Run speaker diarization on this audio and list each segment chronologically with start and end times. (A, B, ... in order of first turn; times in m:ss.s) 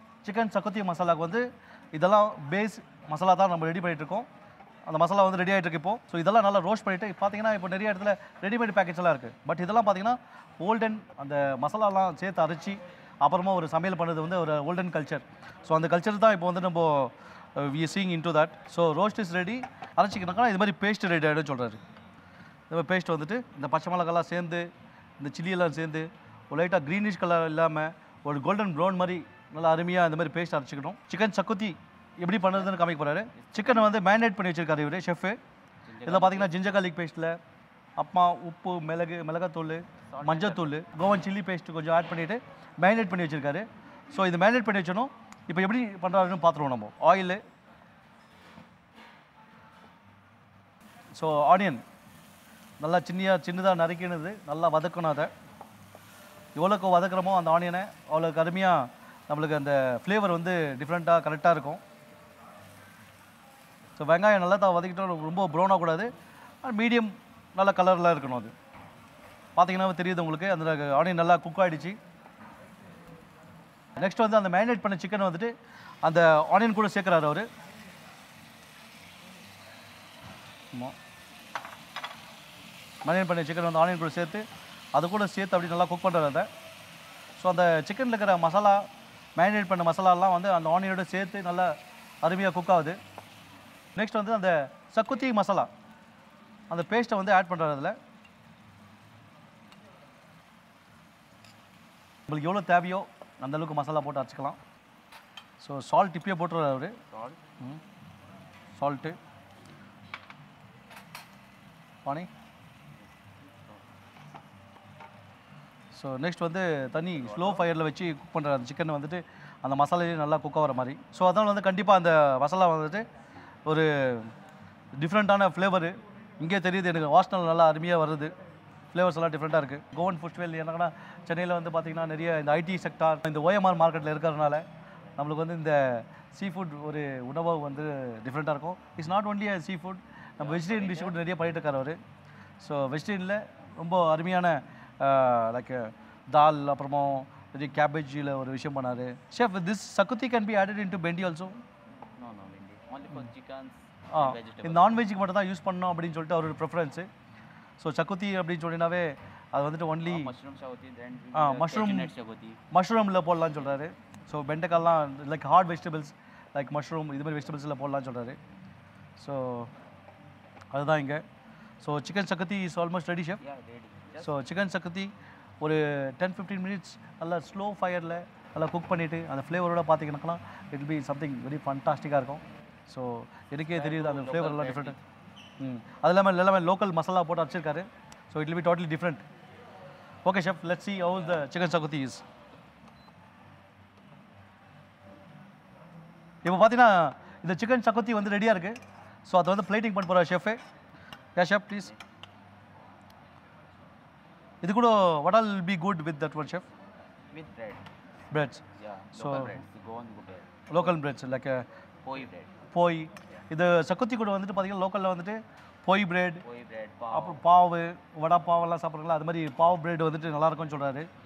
0:00.2-0:04.3 A
0:04.9-0:21.8 A
0:22.7-0:35.4 A
0:32.5-0:33.9 B
0:35.9-0:36.6 B
0:36.0-0:37.4 A
0:38.0-0:47.4 A
0:40.1-0:40.8 B
0:51.1-0:51.8 A
0:52.8-0:55.3 A
0:56.5-1:01.8 A
1:04.0-1:06.1 A
1:06.6-1:08.5 A
1:09.6-1:12.0 A
1:14.0-1:15.5 A
1:16.0-1:17.5 A
1:23.0-1:26.5 A
1:27.4-1:31.7 A
1:32.2-1:33.0 A
1:33.9-1:35.7 A
1:36.7-1:38.0 A
1:42.3-1:44.6 A
1:45.6-1:47.0 A
1:47.1-1:47.4 B
1:48.7-1:49.2 A
1:53.4-1:53.8 B
1:55.9-2:03.0 A
1:57.1-1:57.7 B
2:03.7-2:04.3 A
2:05.0-2:08.3 A
2:08.9-2:14.6 A
2:15.2-2:22.0 A
2:20.4-2:21.2 B
2:22.6-2:31.6 A
2:32.2-2:35.0 B
2:34.1-2:37.1 A
2:37.8-2:40.3 A
2:40.0-2:42.6 B
2:41.3-2:42.1 A
2:42.7-2:48.4 A
2:49.2-2:49.7 A
2:50.7-2:51.2 A
2:51.8-2:53.4 A
2:53.4-2:54.4 B
2:54.2-3:05.0 A
3:03.7-3:05.0 B
3:05.6-3:09.2 A
3:10.2-3:12.2 A
3:16.4-3:20.6 A
3:21.4-3:21.9 A
3:24.6-3:26.7 A
3:27.3-3:27.8 B
3:28.3-3:28.6 A
3:28.8-3:31.0 B
3:29.2-3:29.6 A
3:30.7-3:31.6 A
3:32.0-3:32.5 B
3:32.7-3:36.4 A
3:36.4-3:37.4 B
3:37.1-3:41.1 A